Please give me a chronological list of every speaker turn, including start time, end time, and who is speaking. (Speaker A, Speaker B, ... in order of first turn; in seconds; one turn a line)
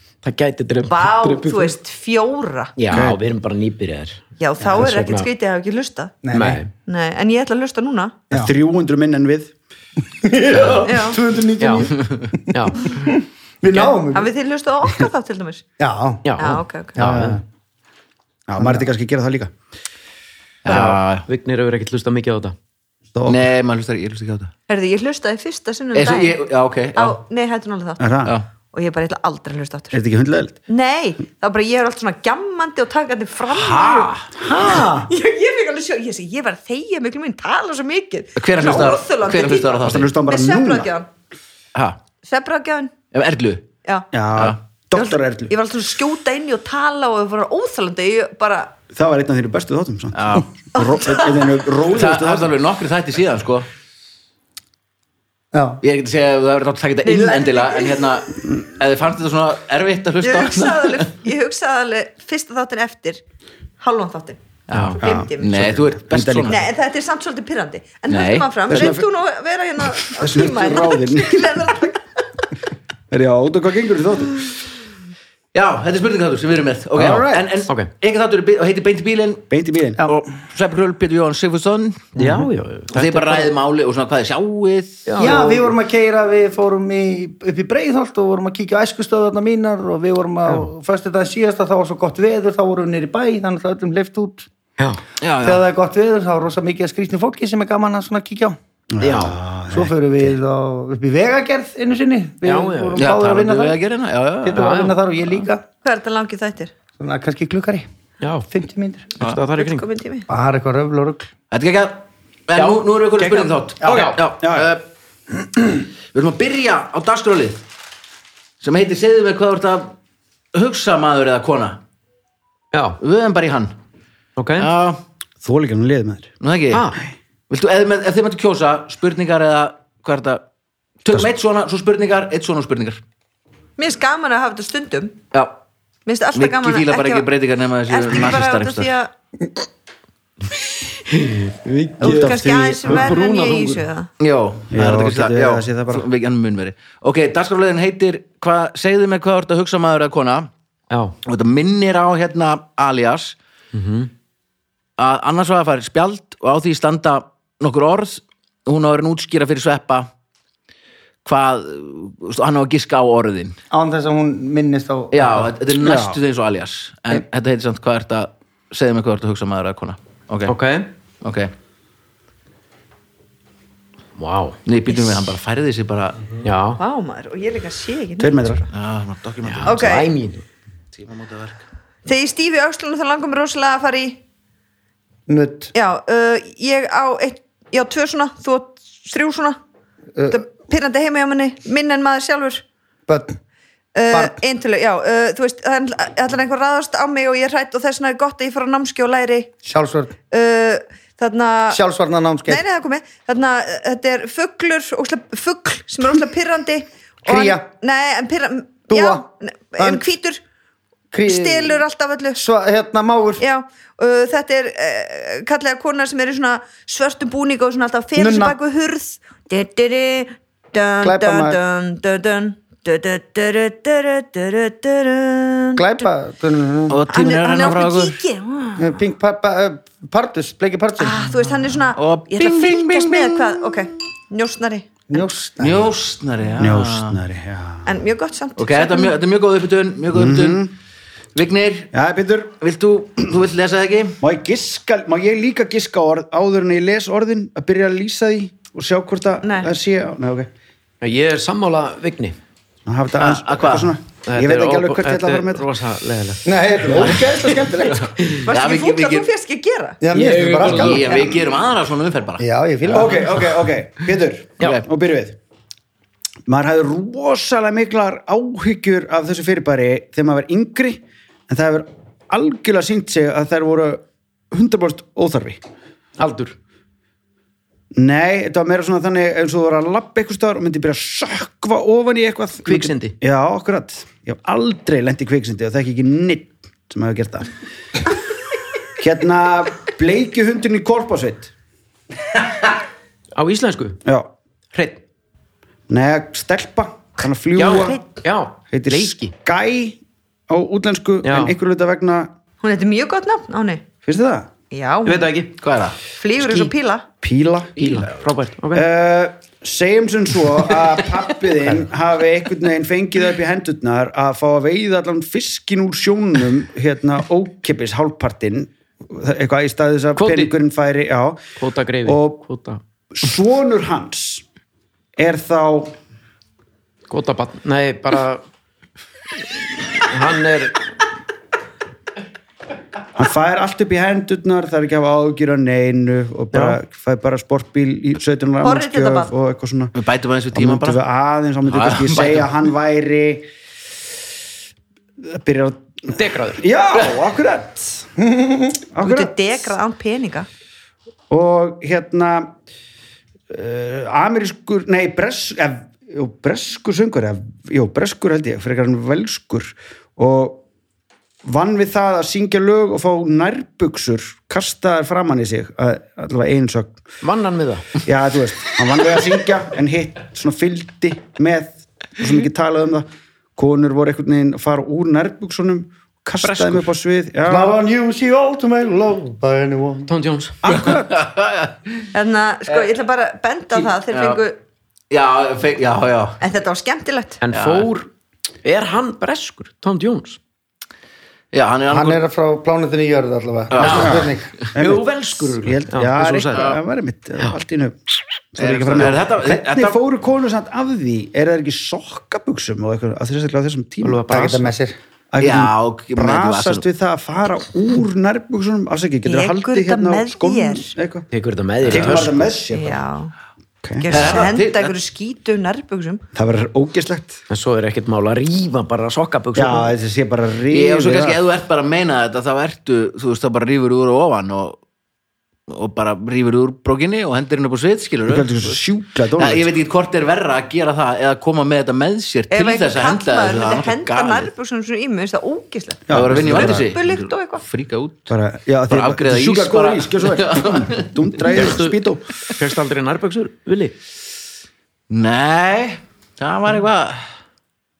Speaker A: 0.2-1.7
Speaker B: 0.8-2.7
Speaker A: 2.8-5.3
Speaker C: 2.9-3.2
Speaker B: 4.4-6.2
Speaker D: 6.2-6.6
Speaker A: 6.3-6.7
Speaker B: 6.8-8.2
Speaker C: 8.3-9.5
Speaker D: 10.2-14.3
Speaker B: 10.8-11.2
Speaker A: 11.6-12.9
Speaker B: 13.7-15.7
Speaker D: 15.8-16.3
Speaker A: 16.2-17.4
Speaker B: 16.4-17.1
Speaker D: 17.0-17.4
Speaker C: 17.0-17.3
Speaker C: 18.5-19.5
Speaker D: 18.6-18.9
Speaker E: 20.6-21.2
Speaker A: 20.7-22.6
Speaker C: 23.1-23.5
Speaker E: 23.2-24.5
Speaker B: 24.7-26.4
Speaker E: 25.9-27.2
Speaker B: 26.9-28.0
Speaker C: 28.0-28.3
Speaker B: 28.7-30.0
Speaker C: 29.9-30.6
Speaker B: 30.7-41.1
Speaker E: 33.5-34.2
Speaker D: 34.4-35.1
Speaker E: 38.4-40.1
Speaker C: 39.8-40.9
Speaker B: 42.2-42.9
Speaker E: 43.1-43.7
Speaker C: 44.1-45.5
Speaker B: 44.9-48.8
Speaker C: 48.9-52.5
Speaker E: 50.1-50.5
Speaker B: 50.8-51.3
Speaker E: 51.9-53.7
Speaker D: 55.5-55.8
Speaker E: 55.8-61.1
Speaker B: 57.0-58.3
Speaker B: 60.2-63.2
Speaker B: 63.8-64.4
Speaker E: 64.7-66.6
Speaker C: 65.0-66.6
Speaker B: 65.0-65.7
Speaker B: 66.5-72.0
Speaker E: 68.1-68.5
Speaker C: 68.7-69.0
Speaker C: 70.1-71.7
Speaker C: 73.1-74.5
Speaker E: 75.5-79.5
Speaker C: 77.0-77.5
Speaker C: 79.5-80.0
Speaker E: 80.0-82.1
Speaker A: 82.2-83.5
Speaker E: 82.9-85.3
Speaker A: 85.0-85.7
Speaker D: 85.2-94.5
Speaker E: 95.2-95.6
Speaker D: 95.4-98.6
Speaker C: 98.9-100.0
Speaker A: 99.0-99.4
Speaker D: 99.7-103.8
Speaker A: 102.4-103.0
Speaker E: 103.0-104.6
Speaker D: 104.4-105.7
Speaker A: 104.5-105.0
Speaker B: 105.8-106.7
Speaker D: 107.0-107.9
Speaker A: 108.2-108.5
Speaker D: 108.5-109.1
Speaker A: 109.2-109.8
Speaker B: 109.5-110.3
Speaker D: 110.3-111.3
Speaker E: 111.5-114.8
Speaker A: 112.5-114.2
Speaker C: 113.8-114.7
Speaker E: 116.1-117.6
Speaker E: 118.6-119.9
Speaker E: 120.5-121.8
Speaker A: 122.7-123.0
Speaker E: 123.0-123.7
Speaker A: 124.4-124.7
Speaker E: 124.6-125.0
Speaker C: 125.4-126.3
Speaker E: 126.4-126.8
Speaker A: 126.7-127.0
Speaker E: 127.5-130.4
Speaker E: 131.0-133.0
Speaker B: 133.8-135.2
Speaker B: 136.1-137.3
Speaker E: 136.3-138.9
Speaker B: 137.9-139.1
Speaker A: 141.1-143.8
Speaker B: 142.0-144.1
Speaker E: 144.2-150.5
Speaker C: 144.7-146.1
Speaker A: 150.9-151.2
Speaker E: 151.2-153.4
Speaker A: 153.7-154.1
Speaker E: 155.0-160.1
Speaker E: 161.2-163.6
Speaker D: 163.7-165.5
Speaker E: 165.1-170.5
Speaker C: 165.8-166.2
Speaker A: 170.5-170.9
Speaker E: 171.2-171.5
Speaker A: 174.2-174.6
Speaker E: 174.7-176.2
Speaker A: 176.4-176.8
Speaker B: 176.8-178.6
Speaker C: 178.2-178.6
Speaker E: 178.7-180.0
Speaker A: 179.4-180.4
Speaker B: 179.6-180.1
Speaker E: 180.9-181.6
Speaker B: 182.0-184.2
Speaker D: 185.3-185.7
Speaker B: 185.7-189.6
Speaker D: 190.2-190.4
Speaker B: 190.3-192.6
Speaker D: 193.1-193.4
Speaker B: 193.9-199.6
Speaker D: 194.1-194.3
Speaker D: 199.6-200.2
Speaker B: 200.3-201.8
Speaker D: 201.7-202.6
Speaker B: 202.5-210.4
Speaker D: 207.2-207.7
Speaker D: 208.9-209.2
Speaker D: 209.8-210.1
Speaker D: 211.1-211.8
Speaker B: 211.2-212.4
Speaker D: 212.4-213.4
Speaker B: 213.4-226.1
Speaker D: 218.2-218.6
Speaker D: 221.0-221.6
Speaker D: 225.8-227.0
Speaker E: 226.9-228.2
Speaker B: 227.1-229.0
Speaker D: 228.8-231.2
Speaker B: 231.0-234.9
Speaker E: 231.9-233.9
Speaker D: 235.1-235.9
Speaker E: 235.6-237.2
Speaker C: 236.6-237.9
Speaker B: 237.8-239.2
Speaker E: 238.6-240.7
Speaker C: 240.1-240.7
Speaker E: 241.3-241.9
Speaker C: 241.9-242.6
Speaker E: 242.6-244.2
Speaker C: 244.2-250.5
Speaker B: 249.4-249.7
Speaker A: 251.0-252.3
Speaker C: 252.8-255.7
Speaker E: 253.2-253.9
Speaker A: 254.2-258.4
Speaker D: 256.4-258.1
Speaker E: 257.9-259.3
Speaker B: 258.4-260.0
Speaker D: 260.0-261.2
Speaker A: 260.1-261.2
Speaker E: 260.6-263.1
Speaker D: 262.4-263.3
Speaker C: 262.9-265.4
Speaker E: 264.6-264.8
Speaker C: 266.5-275.6
Speaker A: 276.2-276.6
Speaker C: 277.9-287.5
Speaker A: 282.6-283.1
Speaker C: 289.0-291.5
Speaker A: 293.3-294.0
Speaker C: 294.0-294.3
Speaker A: 294.7-295.0
Speaker C: 295.9-298.0
Speaker A: 297.6-299.3
Speaker C: 298.7-302.3
Speaker A: 301.2-301.5
Speaker B: 302.6-303.9
Speaker C: 304.0-304.5
Speaker B: 304.7-305.3
Speaker A: 305.0-305.6
Speaker E: 305.6-306.0
Speaker B: 306.1-307.1
Speaker A: 306.4-306.7
Speaker C: 307.2-308.1
Speaker E: 307.8-308.1
Speaker A: 307.8-308.9
Speaker C: 308.7-321.4
Speaker A: 320.1-320.5
Speaker A: 321.6-322.8
Speaker C: 322.0-322.4
Speaker C: 323.1-324.4
Speaker C: 325.2-325.9
Speaker A: 327.1-328.4
Speaker A: 329.6-330.8
Speaker C: 333.1-339.9
Speaker A: 336.5-336.8
Speaker B: 338.6-339.3
Speaker E: 339.9-341.0
Speaker C: 340.5-343.5
Speaker E: 341.6-342.5
Speaker C: 345.2-348.0
Speaker A: 346.1-346.6
Speaker D: 348.2-348.9
Speaker C: 348.9-349.5
Speaker B: 349.0-350.5
Speaker C: 351.3-352.5
Speaker C: 353.5-360.6
Speaker C: 361.4-367.0
Speaker A: 367.2-368.0
Speaker C: 368.0-377.8
Speaker A: 376.4-376.8
Speaker D: 377.5-380.1
Speaker A: 380.1-380.6
Speaker C: 380.6-381.1
Speaker E: 380.7-382.1
Speaker B: 382.1-384.6
Speaker E: 383.7-384.4
Speaker E: 385.1-386.4
Speaker B: 386.4-387.4
Speaker A: 387.4-388.1
Speaker E: 387.5-387.9
Speaker A: 388.6-390.4
Speaker E: 391.5-392.2
Speaker D: 391.9-394.5
Speaker E: 393.7-394.2
Speaker A: 393.8-396.8
Speaker C: 393.9-398.0
Speaker C: 398.5-404.2
Speaker E: 398.6-400.0
Speaker A: 404.0-404.7
Speaker D: 404.3-404.9
Speaker C: 405.3-411.3
Speaker E: 405.4-406.8
Speaker B: 409.2-410.9
Speaker A: 411.3-412.6
Speaker C: 411.9-413.0
Speaker B: 412.7-413.3
Speaker C: 413.8-414.1
Speaker B: 414.0-416.2
Speaker E: 414.1-414.9
Speaker C: 416.3-417.4
Speaker A: 417.5-419.9
Speaker C: 419.5-421.4
Speaker E: 420.7-424.8
Speaker E: 425.7-428.8
Speaker C: 428.3-429.7
Speaker E: 429.4-434.5
Speaker B: 432.5-437.6
Speaker C: 436.1-436.9
Speaker E: 436.1-438.3
Speaker C: 438.3-442.3
Speaker E: 438.9-441.1
Speaker A: 441.5-442.0
Speaker A: 442.6-443.9
Speaker E: 445.1-447.2